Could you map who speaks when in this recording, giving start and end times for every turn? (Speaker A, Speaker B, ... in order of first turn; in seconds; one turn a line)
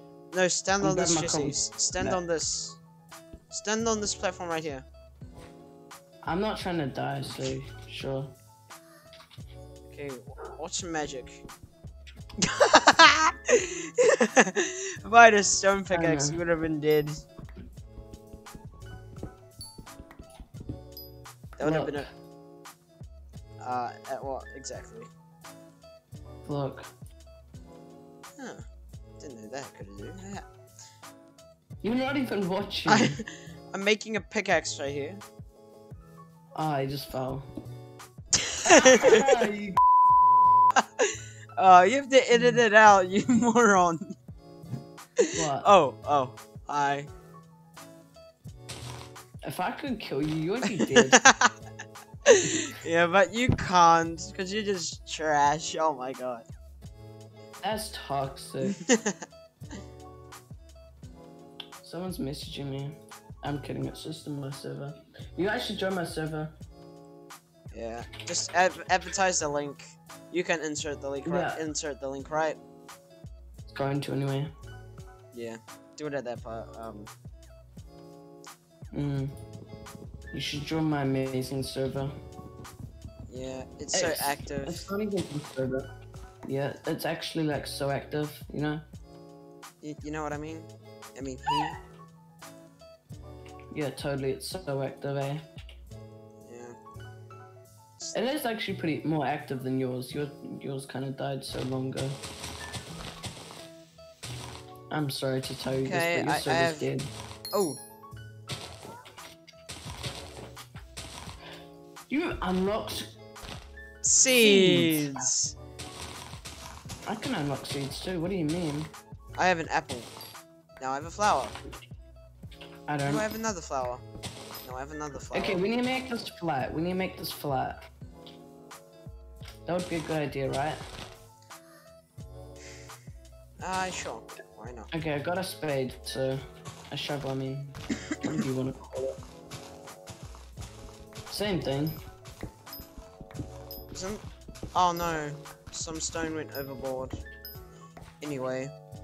Speaker A: 0.3-2.8
Speaker B: 0.8-2.2
Speaker A: 3.5-4.8
Speaker B: 6.2-8.3
Speaker A: 9.9-11.4
Speaker A: 12.4-17.2
Speaker B: 15.9-16.4
Speaker A: 21.6-22.1
Speaker B: 21.6-22.1
Speaker A: 23.6-25.1
Speaker B: 26.4-26.9
Speaker A: 28.4-28.6
Speaker A: 29.2-30.4
Speaker B: 31.8-33.2
Speaker A: 32.8-35.2
Speaker B: 36.5-37.5
Speaker A: 38.4-39.2
Speaker B: 38.6-39.7
Speaker A: 40.8-44.1
Speaker A: 45.2-47.1
Speaker B: 45.4-45.7
Speaker B: 49.4-51.2
Speaker A: 50.6-51.5
Speaker A: 52.2-56.5
Speaker B: 52.4-52.7
Speaker B: 57.6-58.8
Speaker A: 58.6-59.2
Speaker B: 61.8-66.5
Speaker A: 67.7-72.6
Speaker B: 71.2-71.6
Speaker B: 73.7-74.5
Speaker A: 75.3-77.1
Speaker B: 78.9-79.4
Speaker B: 80.3-82.2
Speaker A: 83.3-84.9
Speaker B: 83.9-85.9
Speaker B: 86.4-88.8
Speaker A: 89.8-91.8
Speaker B: 93.7-95.5
Speaker A: 96.4-96.7
Speaker A: 98.0-98.3
Speaker B: 98.1-102.2
Speaker B: 104.9-107.1
Speaker A: 105.7-106.9
Speaker A: 107.5-107.8
Speaker B: 112.1-113.1
Speaker A: 114.0-115.5
Speaker B: 114.4-115.3
Speaker B: 117.0-118.9
Speaker A: 119.3-120.1
Speaker A: 120.8-121.5
Speaker B: 122.9-123.2
Speaker A: 123.0-124.0
Speaker A: 124.6-125.6
Speaker B: 125.3-127.8
Speaker B: 129.6-130.8
Speaker A: 133.6-134.9
Speaker B: 134.9-139.2
Speaker B: 141.3-142.0
Speaker A: 143.9-144.2
Speaker A: 144.7-147.2
Speaker A: 148.2-148.7